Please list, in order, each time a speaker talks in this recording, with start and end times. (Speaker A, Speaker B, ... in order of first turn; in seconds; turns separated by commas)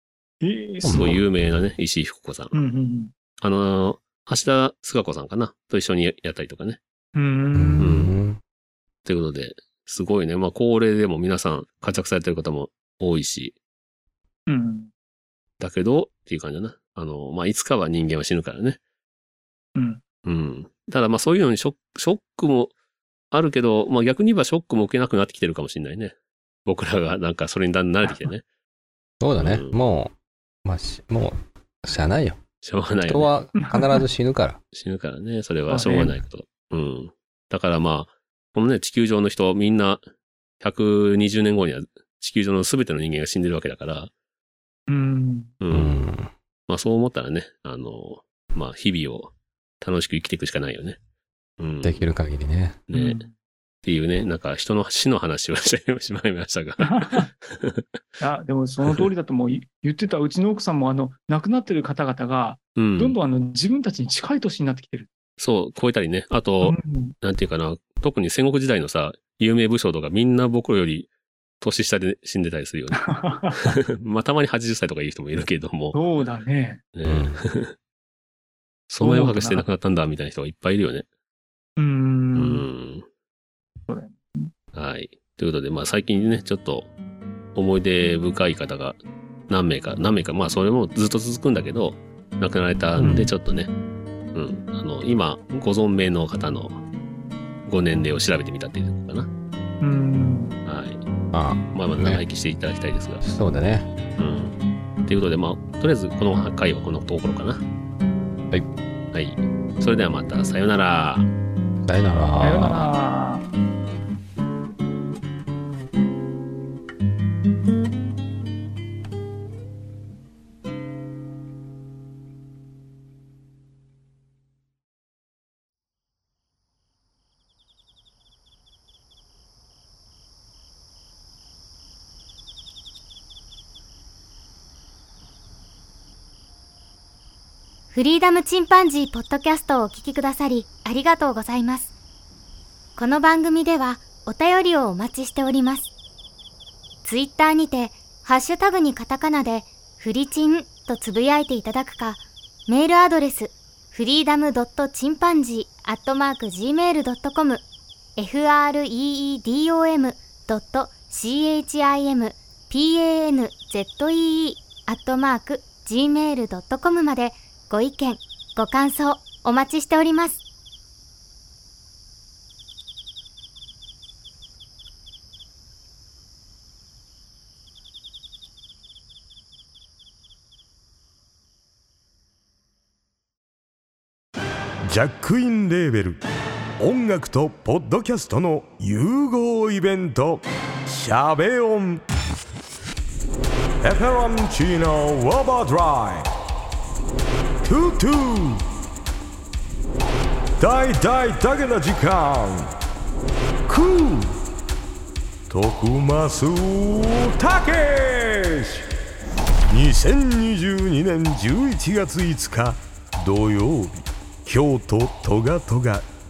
Speaker A: 0.4-1.2, Speaker B: 0.8-1.2, Speaker C: 0.8-2.6, Speaker A: 2.5-3.1, Speaker C: 3.4-6.8, Speaker A: 7.2-8.0, Speaker B: 7.5-8.4, Speaker C: 7.8-8.1, Speaker C: 9.0-13.6, Speaker A: 14.5-14.9, Speaker C: 15.6-18.8, Speaker A: 19.8-20.0, Speaker C: 20.2-22.7, Speaker C: 23.3-26.1, Speaker C: 26.7-28.4, Speaker B: 29.2-30.1, Speaker C: 29.4-29.8, Speaker B: 30.7-32.4, Speaker C: 32.6-33.3, Speaker B: 33.0-34.6, Speaker A: 33.5-34.0, Speaker C: 34.7-40.0, Speaker A: 35.7-36.2, Speaker C: 40.6-44.1, Speaker A: 44.9-45.5, Speaker C: 45.6-46.0, Speaker B: 45.7-46.3, Speaker C: 46.7-51.0, Speaker C: 51.6-52.1, Speaker B: 51.8-52.8, Speaker C: 52.9-53.3, Speaker A: 52.9-53.3, Speaker C: 53.8-57.8, Speaker A: 56.8-57.3, Speaker A: 58.2-65.1, Speaker C: 62.8-63.2, Speaker C: 65.4-73.0, Speaker A: 66.6-67.1, Speaker A: 73.0-73.8, Speaker C: 73.6-76.0, Speaker A: 75.9-76.8, Speaker C: 77.0-77.7, Speaker B: 77.0-77.4, Speaker C: 78.9-81.1, Speaker A: 79.0-79.7, Speaker A: 81.8-82.6, Speaker C: 82.3-83.1, Speaker A: 83.9-84.5, Speaker C: 84.7-86.9, Speaker C: 87.5-93.7, Speaker B: 93.0-93.3, Speaker A: 93.0-93.3, Speaker C: 94.3-96.8, Speaker C: 97.7-99.3, Speaker A: 99.8-100.5, Speaker C: 100.7-101.0, Speaker B: 101.3-102.2, Speaker C: 101.7-103.2, Speaker B: 103.2-103.9, Speaker C: 104.2-104.5, Speaker C: 105.0-107.6, Speaker C: 109.1-111.3, Speaker B: 111.8-112.9, Speaker A: 112.4-113.5, Speaker D: 137.9-141.9, Speaker D: 143.0-145.9, Speaker D: 147.1-157.6, Speaker D: 158.2-170.4, Speaker E: 184.9-186.2, Speaker E: 186.8-192.0, Speaker E: 193.8-196.3, Speaker E: 197.6-198.6, Speaker E: 200.6-202.7, Speaker E: 203.7-204.3, Speaker E: 205.5-208.8, Speaker E: 209.7-216.1